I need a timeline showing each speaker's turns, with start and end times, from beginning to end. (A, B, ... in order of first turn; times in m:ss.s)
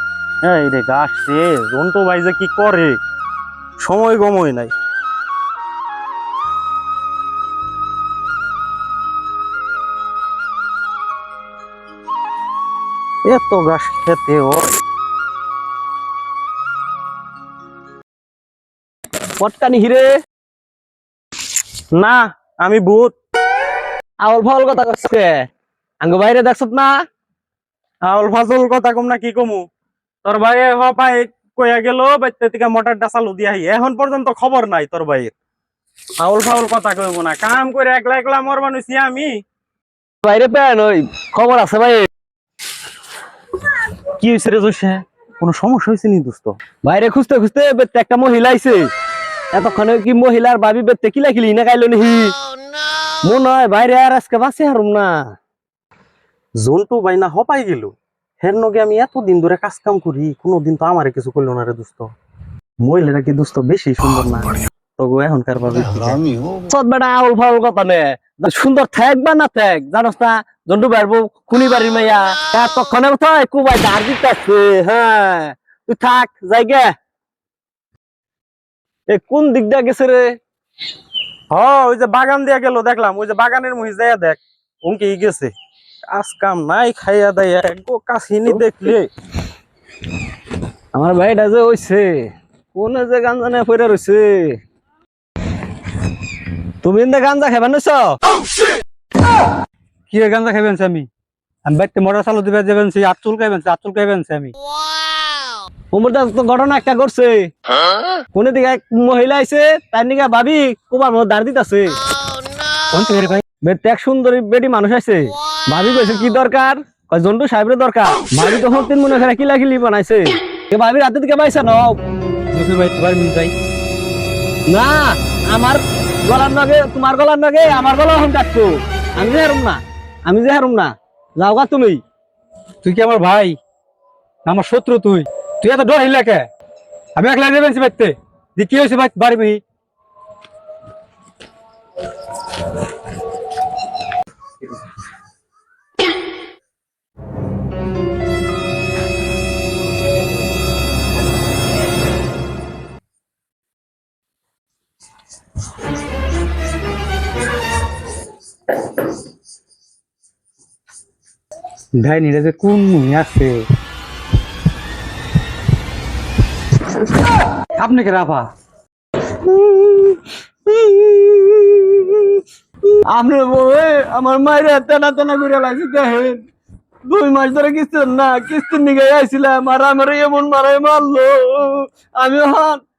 0:00.4-0:03.0 A
0:03.8-0:04.7 A
0:13.2-0:14.7 A
0:19.4-0:20.1 B
0:21.9-0:23.2 A
0:24.2-0:25.4 B
0:26.0-0:26.9 B
0:28.0-0:29.6 A
0:30.2-0:35.3 A
0:36.2-0:39.4 A
0:40.2-0:42.1 B
0:44.2-0:46.6 A
0:46.8-0:48.9 B
0:49.5-0:52.4 B
0:53.2-0:55.3 B
0:56.6-1:02.1 A
1:02.8-1:06.2 A
1:06.7-1:16.9 B
1:19.1-1:20.4 B
1:21.5-1:25.5 A
1:26.1-1:29.1 A
1:31.0-1:34.6 B
1:36.8-1:38.2 B
1:40.1-1:41.1 C
1:41.7-1:44.5 C
1:45.9-1:47.5 B
1:48.3-1:52.0 B
1:52.9-1:53.4 C
1:53.6-2:02.0 B
2:02.5-2:03.5 C
2:04.7-2:12.0 B
2:12.8-2:13.6 C
2:14.5-2:16.5 C
2:17.2-2:19.6 C
2:42.0-2:43.7 C
2:47.8-2:48.5 C
2:49.3-2:52.4 B
2:53.1-2:56.4 B
2:57.0-3:02.8 B